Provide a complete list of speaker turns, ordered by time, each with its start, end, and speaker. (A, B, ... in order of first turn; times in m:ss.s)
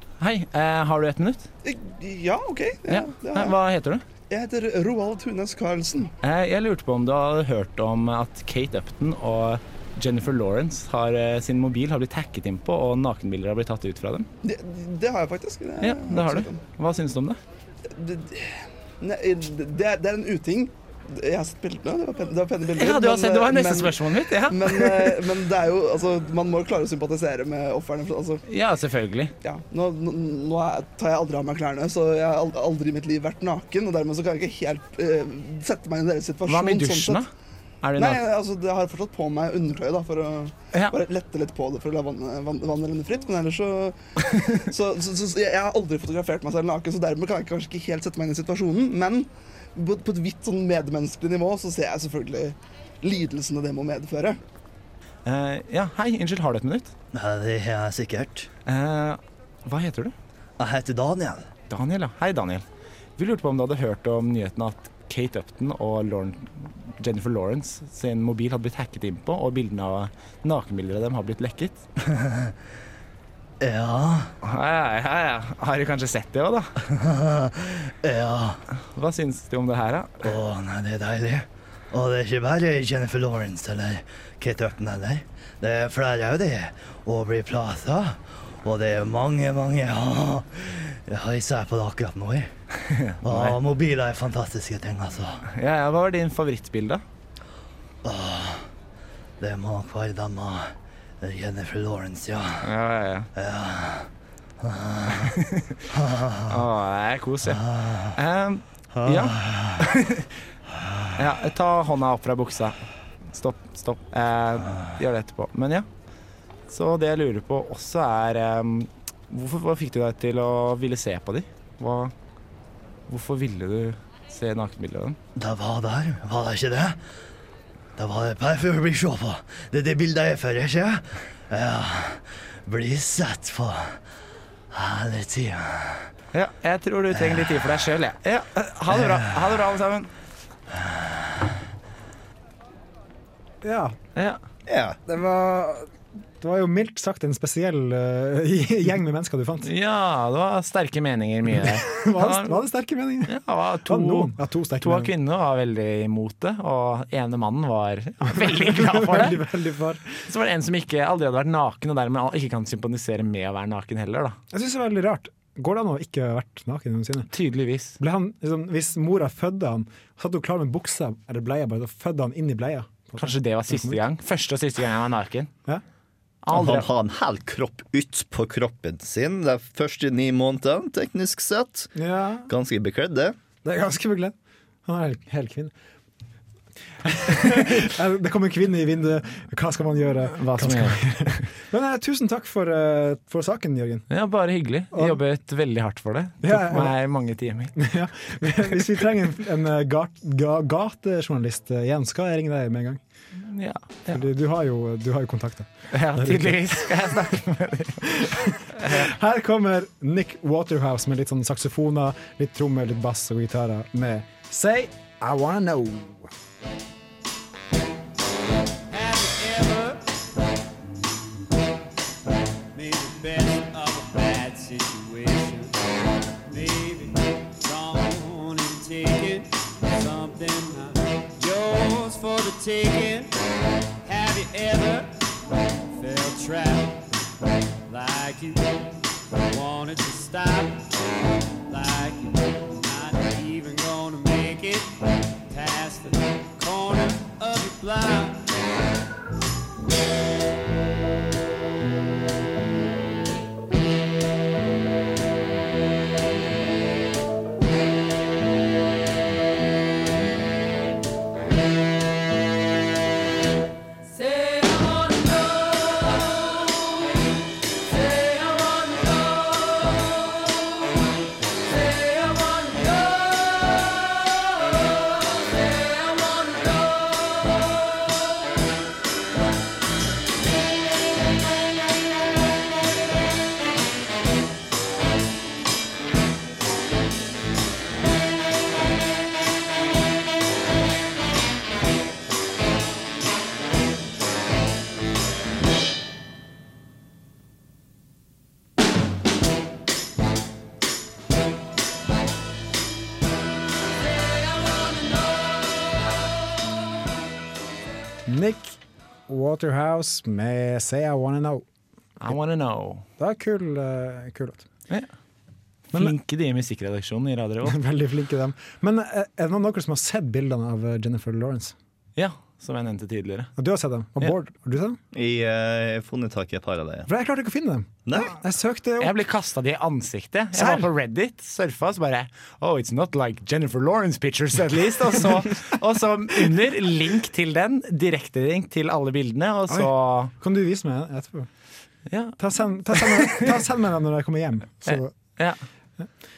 0:00.2-0:01.5 A
0:01.6-0:03.6 B
0:02.9-0:04.0 A
0:04.3-0:06.1 B
0:06.2-0:14.3 A
0:14.4-0:16.6 B
0:15.8-0:17.4 A
0:17.9-0:28.4 B
0:22.8-0:25.2 A
0:28.5-0:29.3 A
0:29.4-0:37.2 B
0:36.5-0:37.3 A
0:37.8-0:38.2 A
0:38.0-0:54.4 B
0:40.7-0:41.0 A
0:55.2-0:56.9 A
0:57.1-0:58.5 C
0:58.6-1:00.1 A
1:00.6-1:01.5 C
1:01.7-1:02.6 A
1:03.2-1:11.8 A
1:12.1-1:12.5 C
1:13.6-1:14.4 C
1:14.4-1:16.7 A
1:16.9-1:18.6 C
1:18.8-1:20.2 A
1:20.2-1:32.5 C
1:32.8-1:33.6 A
1:33.2-1:35.4 C
1:35.5-1:37.0 A
1:38.0-1:38.6 C
1:39.4-1:42.6 C
1:42.6-1:43.3 A
1:43.4-1:44.1 C
1:44.6-1:45.3 C
1:45.1-1:45.9 A
1:45.9-1:46.6 C
1:46.5-1:50.3 A
1:47.6-1:48.1 C
1:49.0-1:49.8 C
1:51.1-1:52.8 A
1:53.3-1:55.9 A
1:56.7-2:02.1 A
2:03.1-2:05.2 A
2:05.4-2:07.0 C
2:08.0-2:14.0 C
2:14.7-2:16.1 C
2:16.3-2:20.1 A
2:17.2-2:17.6 C
2:23.6-2:24.0 D
2:24.1-2:24.4 A
2:24.7-2:25.0 C
2:25.1-2:29.7 D
2:29.6-2:32.6 A
2:31.6-2:35.1 D
2:33.3-2:39.4 A
2:38.2-2:40.2 D
2:40.3-2:44.4 A
2:44.5-2:47.3 D
2:47.3-2:48.0 A
2:48.0-2:54.0 D
2:53.2-2:55.5 A
2:56.4-2:56.9 A
2:56.5-3:01.9 C
3:02.0-3:02.5 D
3:02.5-3:03.4 C
3:03.6-3:05.7 D
3:07.0-3:14.1 D
3:10.4-3:11.4 A
3:14.1-3:17.8 A
3:14.9-3:15.2 D
3:16.4-3:17.0 D
3:17.8-3:23.0 D
3:23.4-3:24.2 A
3:24.1-3:27.1 D
3:25.9-3:28.1 A
3:28.0-3:36.3 D
3:28.8-3:29.1 A
3:38.9-3:40.2 E
3:42.7-3:45.8 E
3:46.4-3:53.3 E
3:54.0-3:55.4 E
3:55.9-3:57.3 E
3:57.9-4:00.9 E
4:01.6-4:08.6 E
5:08.3-5:11.6 D
5:12.2-5:13.1 A
5:13.2-5:14.6 D
5:15.9-5:17.8 A
5:17.6-5:21.8 D
5:22.2-5:23.5 A
5:23.6-5:25.0 D
5:25.1-5:27.1 C
5:27.1-5:29.1 D
5:28.1-5:28.3 C
5:29.0-5:40.3 A
5:30.5-5:30.9 D
5:39.7-5:41.5 D
5:42.1-5:43.6 A
5:42.4-5:45.1 D
5:44.8-5:45.6 A